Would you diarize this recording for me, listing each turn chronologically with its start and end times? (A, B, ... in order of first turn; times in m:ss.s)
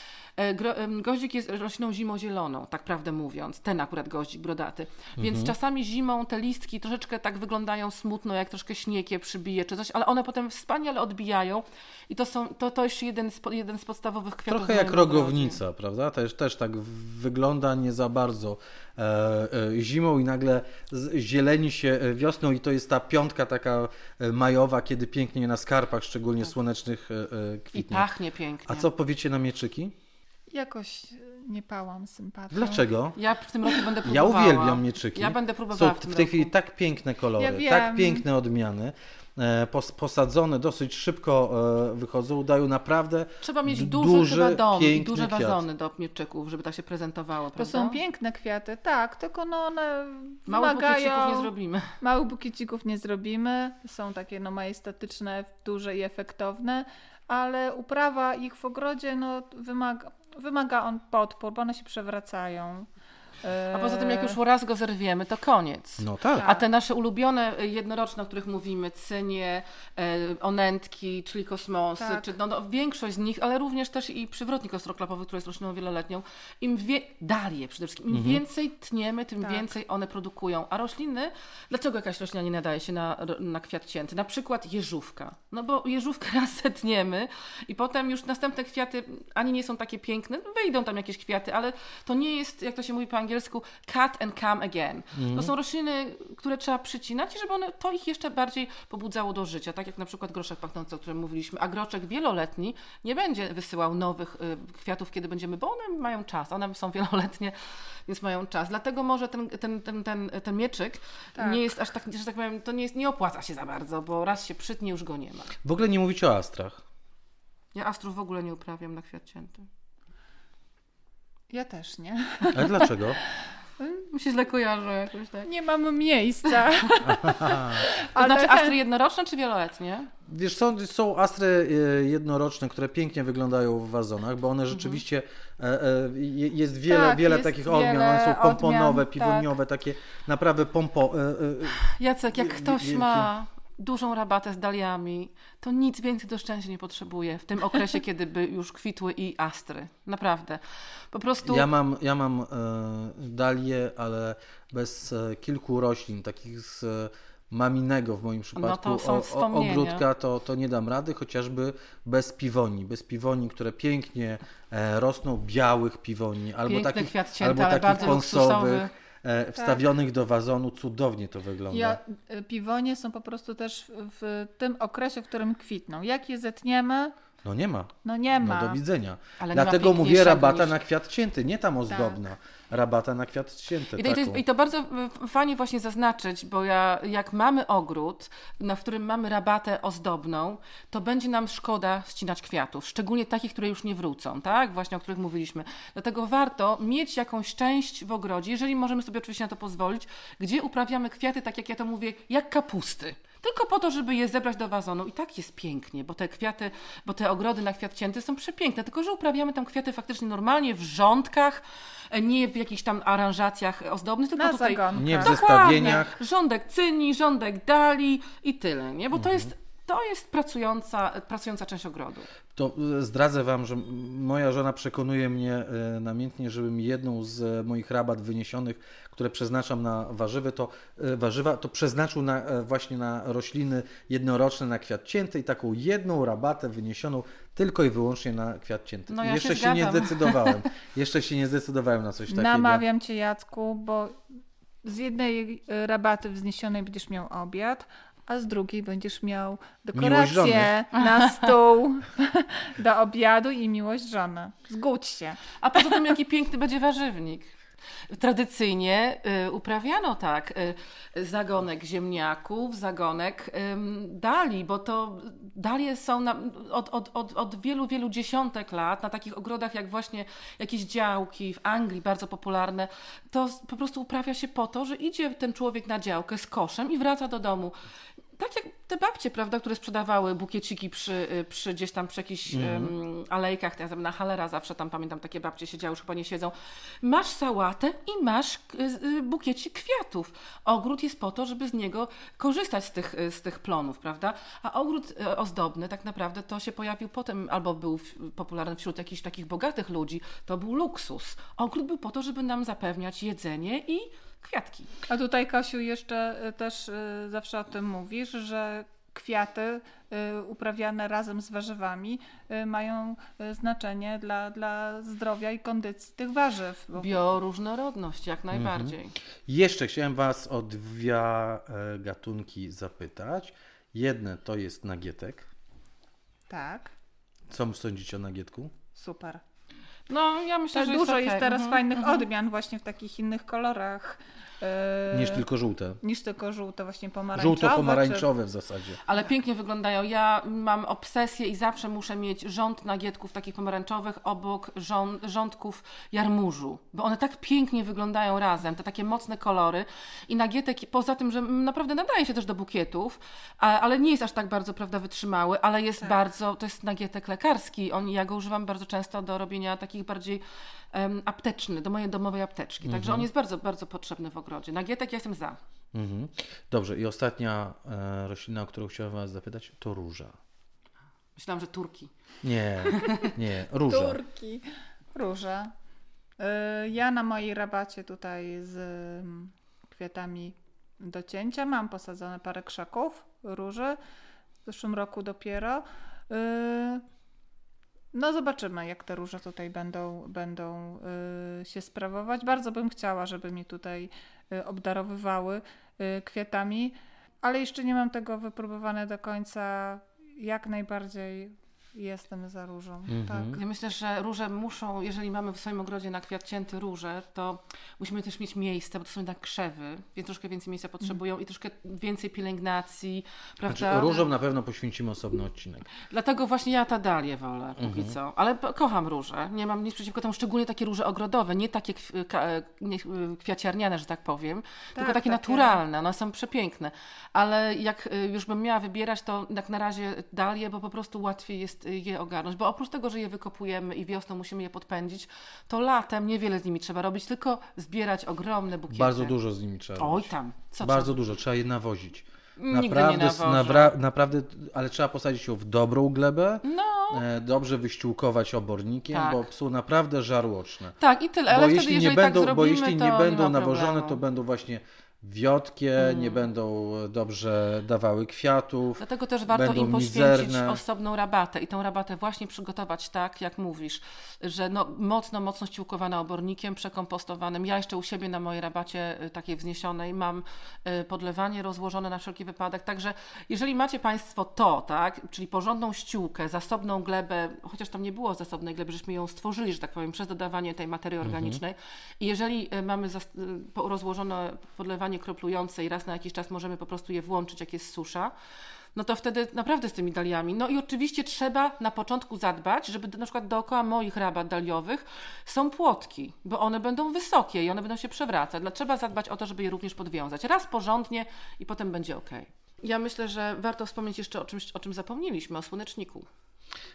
0:00.4-0:15.6 A
0:05.2-0:05.5 B
0:14.5-0:28.0 B
0:27.7-0:28.9 A
0:28.7-0:29.9 B
0:30.5-0:32.9 C
0:32.5-0:33.2 B
0:33.1-0:36.5 A
0:34.0-0:45.6 B
0:37.4-0:38.3 C
0:43.4-0:48.0 A
0:47.6-1:02.9 C
0:50.5-0:51.9 A
1:03.4-1:04.4 C
1:03.7-1:47.5 A
1:06.0-1:06.4 B
1:12.0-1:12.4 C
1:18.1-1:18.4 B
1:19.4-1:19.7 C
1:35.1-1:35.5 B
1:48.0-1:55.5 A
1:51.4-1:51.8 C
1:55.6-1:56.8 B
1:57.7-1:59.7 A
2:01.5-2:03.2 C
2:02.5-2:03.2 B
2:04.1-2:05.5 A
2:05.4-2:08.8 C
2:06.8-2:10.1 A
2:07.0-2:07.8 B
2:10.3-2:23.3 B
2:14.7-2:15.0 A
2:16.9-2:19.5 C
2:21.8-2:31.7 A
2:31.4-2:52.0 B
2:38.5-2:40.0 A
2:46.6-2:48.9 A
2:49.6-2:49.9 C
2:51.7-2:57.1 C
2:57.4-3:04.4 B
2:58.0-2:58.8 C
2:59.4-3:00.8 A
3:01.9-3:02.2 C
3:04.0-3:42.3 A
3:34.4-3:36.0 C
3:34.9-3:36.2 B
3:39.1-3:39.5 B
3:42.6-4:02.8 B
3:59.1-4:00.6 A
4:02.3-4:04.2 C
4:04.8-4:15.9 C
4:09.9-4:10.7 B
4:11.1-4:11.5 A
4:15.6-4:17.5 A
4:18.1-4:37.8 A
4:38.4-5:04.9 A
4:42.5-4:42.9 B
5:05.1-5:17.2 C
5:16.9-5:19.2 A
5:18.5-5:18.9 B
5:19.5-5:25.4 B
5:26.5-5:26.9 C
5:27.5-5:28.8 B
5:28.9-5:29.4 C
5:30.1-5:32.2 A
5:30.7-5:35.4 C
5:35.1-5:36.0 B
5:36.0-5:38.3 C
5:37.3-5:39.0 B
5:39.0-6:05.6 A
6:02.8-6:03.3 B
6:05.9-6:10.4 B
6:11.4-6:12.1 A
6:12.4-6:14.2 B
6:12.8-6:13.3 A
6:13.9-6:15.7 C
6:16.4-6:24.0 C
6:24.6-6:27.0 C
6:28.1-6:43.6 C
6:43.1-6:43.6 B
6:43.5-6:54.3 A
6:53.7-6:55.9 B
6:56.0-7:19.4 A
6:57.8-6:58.1 B
7:04.9-7:05.8 C
7:18.9-7:20.3 B
7:20.0-7:21.2 A
7:20.8-7:30.9 B
7:22.6-7:23.9 A
7:26.6-7:27.2 A
7:29.1-7:29.4 A
7:31.0-7:34.2 A
7:31.5-7:40.8 B
7:36.0-7:36.4 A
7:39.0-8:08.3 A
8:01.2-8:01.6 B
8:08.9-8:26.3 A